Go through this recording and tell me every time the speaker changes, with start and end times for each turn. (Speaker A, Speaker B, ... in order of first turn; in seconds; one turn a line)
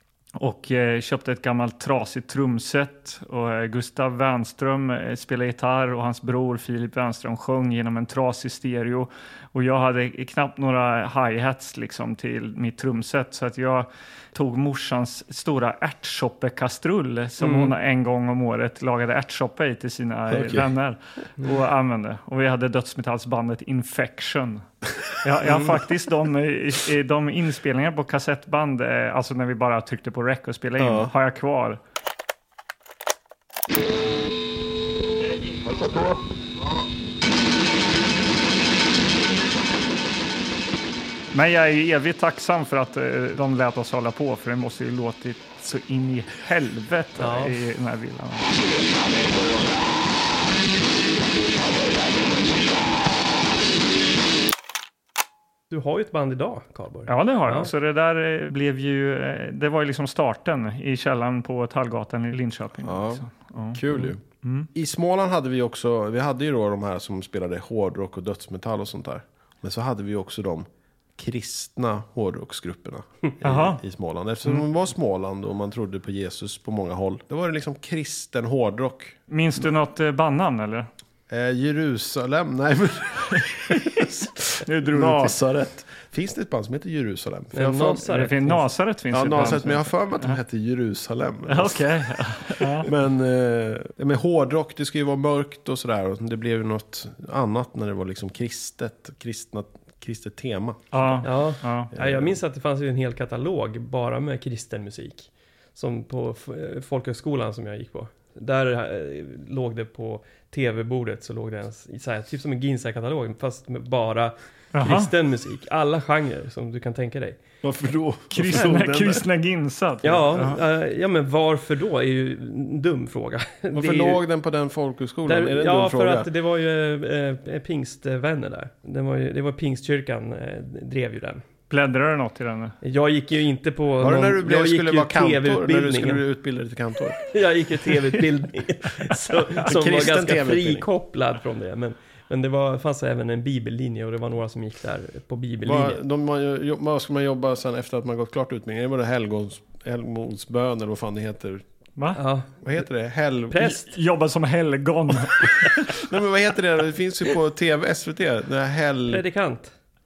Speaker A: 0.4-24.7
Speaker B: 17.4-17.7
Speaker C: 20.3-20.7
Speaker A: 25.2-31.8
Speaker B: 25.4-25.8
Speaker C: 30.8-31.1
Speaker A: 41.3-48.5
Speaker B: 47.2-47.6
Speaker B: 55.7-57.7
Speaker A: 57.1-64.7
Speaker C: 62.8-64.2
Speaker C: 64.7-79.2
Speaker A: 73.4-73.8
Speaker A: 79.3-80.9
Speaker C: 81.3-88.0
Speaker A: 83.7-84.0
Speaker A: 84.7-85.4
Speaker B: 87.5-88.7
Speaker A: 88.1-90.4
Speaker C: 89.1-101.2
Speaker A: 91.5-92.9
Speaker A: 100.9-101.9
Speaker B: 101.2-117.4
Speaker C: 101.9-102.3
Speaker A: 114.8-115.1
Speaker C: 117.6-119.2
Speaker A: 118.3-120.6
Speaker B: 118.5-118.9
Speaker B: 120.0-124.2
Speaker C: 123.7-126.3
Speaker B: 125.3-131.4
Speaker A: 131.7-132.8
Speaker B: 132.8-136.2
Speaker C: 134.0-137.3
Speaker B: 137.2-146.0
Speaker C: 139.6-140.9
Speaker C: 145.6-151.6
Speaker A: 152.0-152.2
Speaker B: 152.2-152.6
Speaker C: 152.6-153.6
Speaker B: 153.5-153.9
Speaker A: 153.6-156.0
Speaker C: 155.9-159.2
Speaker B: 159.1-159.7